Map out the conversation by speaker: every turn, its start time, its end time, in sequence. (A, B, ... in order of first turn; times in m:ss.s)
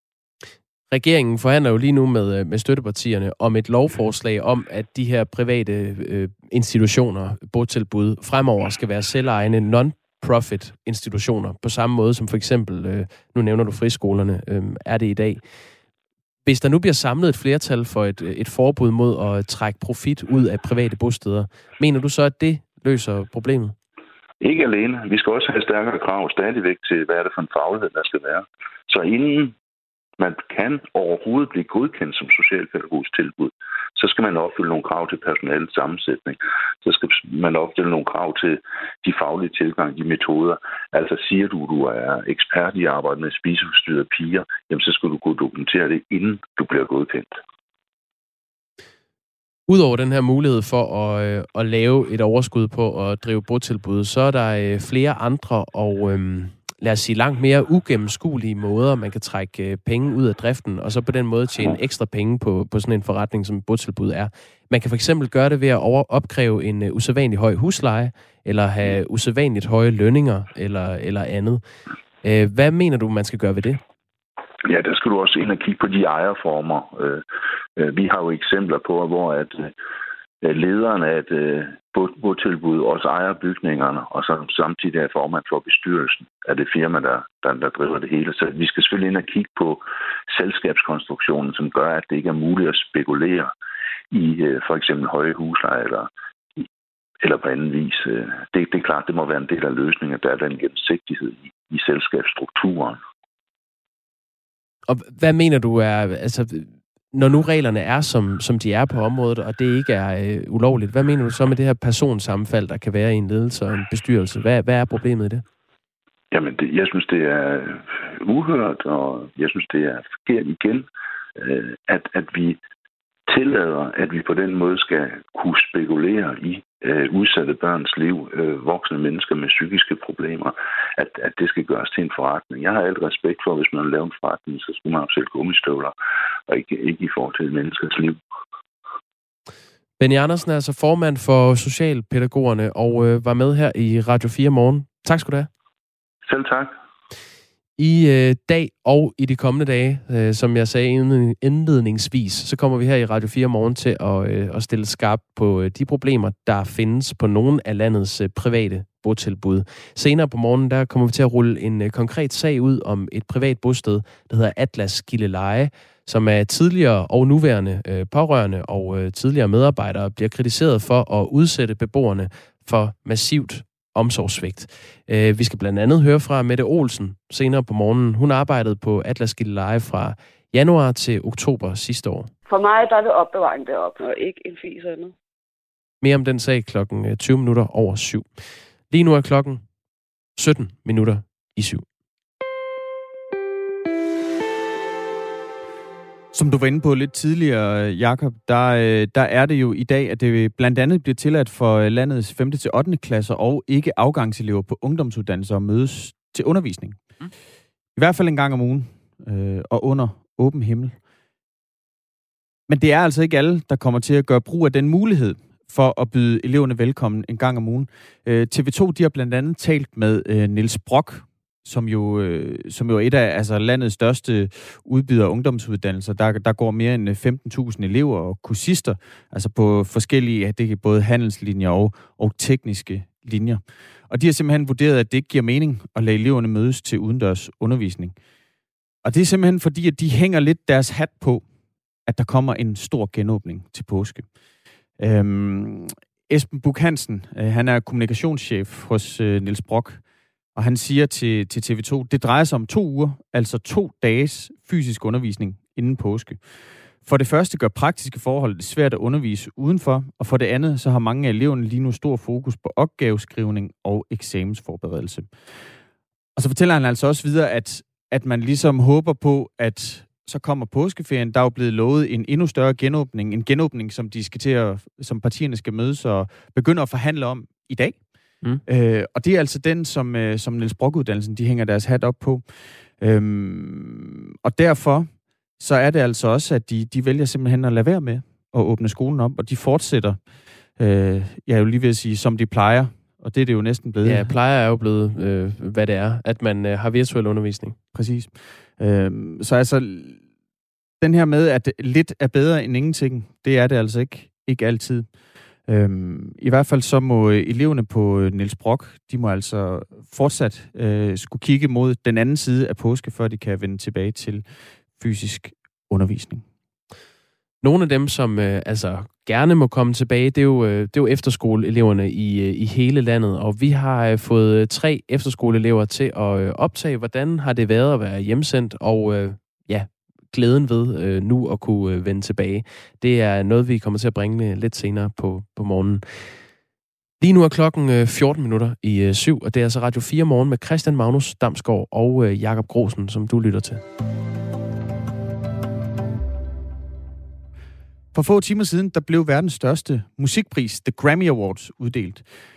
0:00.9-0:15.4 A
0:16.4-0:23.8 A
0:24.4-0:29.5 B
0:30.2-0:47.3 B
0:49.7-1:11.6 A
1:12.2-1:13.8 A
1:14.7-1:17.2 B
1:17.8-1:19.7 B
1:20.4-1:33.5 B
1:34.1-1:36.6 B
1:37.2-1:43.0 B
1:44.9-1:55.4 A
1:56.3-2:00.9 B
2:01.4-2:02.6 B
2:03.3-2:16.0 B
2:16.5-2:18.2 B
2:20.0-2:25.5 A
2:26.3-2:26.7 B
2:27.8-3:02.3 A
3:02.5-3:05.1 C
3:06.0-3:08.3 A
3:08.9-3:09.6 A
3:10.4-3:11.8 A
3:16.3-3:27.0 D
3:28.0-3:31.0 D
3:32.7-3:58.2 D
3:59.0-4:01.4 D
4:02.1-4:04.3 D
4:05.0-4:10.0 D
4:10.6-4:16.4 D
4:17.0-4:25.3 D
4:26.4-4:38.0 D
4:38.7-4:42.4 D
4:43.0-4:50.2 D
4:50.8-4:54.3 D
4:54.0-4:57.8 A
4:57.9-5:00.2 D
5:01.0-5:05.1 D
5:05.7-5:14.4 D
5:15.0-5:16.4 D
5:17.6-5:36.3 A
5:37.2-5:43.8 A
5:48.1-5:52.2 D